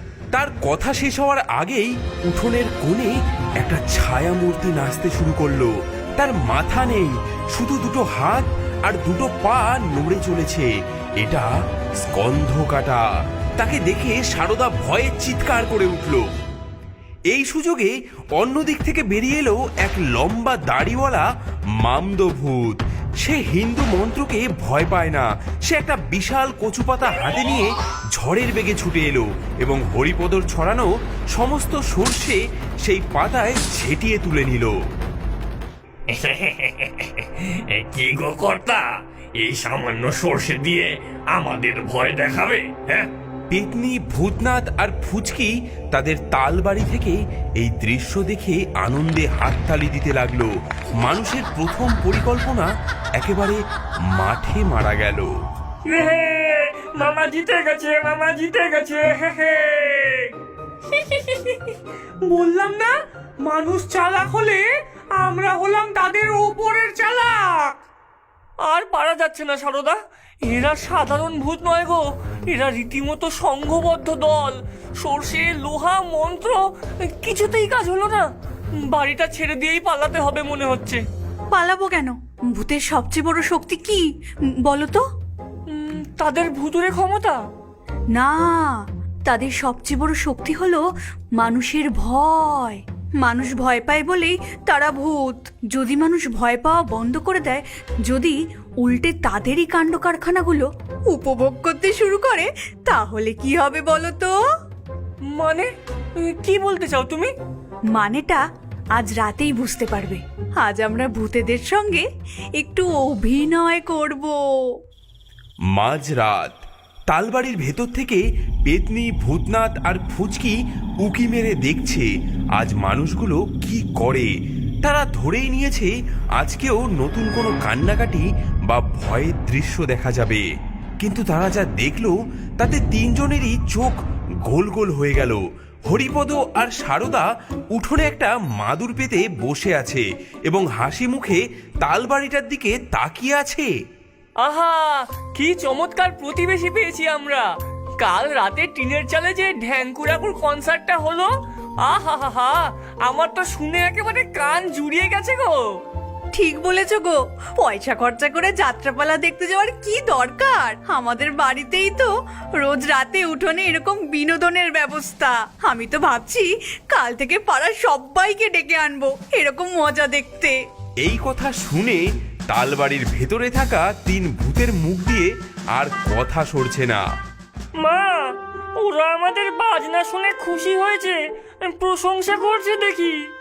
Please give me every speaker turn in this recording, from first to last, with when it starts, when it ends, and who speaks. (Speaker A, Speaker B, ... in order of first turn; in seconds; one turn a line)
Speaker A: 0.3-11.5
Speaker A: 12.0-13.0
Speaker A: 13.6-16.2
Speaker A: 17.3-21.2
Speaker A: 21.8-34.7
Speaker B: 36.1-38.9
Speaker B: 39.4-43.1
Speaker A: 43.5-53.6
Speaker A: 54.1-55.3
Speaker C: 55.9-60.3
Speaker C: 60.9-61.7
Speaker C: 62.2-64.7
Speaker C: 65.2-67.7
Speaker C: 68.6-78.3
Speaker C: 78.8-81.0
Speaker D: 81.5-84.0
Speaker D: 84.6-85.0
Speaker C: 85.7-87.4
Speaker D: 88.1-90.8
Speaker D: 91.4-104.3
Speaker C: 105.3-107.3
Speaker D: 107.9-108.4
Speaker D: 109.0-112.0
Speaker D: 112.6-114.4
Speaker A: 115.7-124.3
Speaker A: 124.8-130.4
Speaker A: 131.0-143.7
Speaker C: 144.4-147.5
Speaker C: 148.0-151.3
Speaker C: 151.8-155.6
Speaker D: 156.3-170.6
Speaker A: 171.0-177.0
Speaker C: 177.8-183.2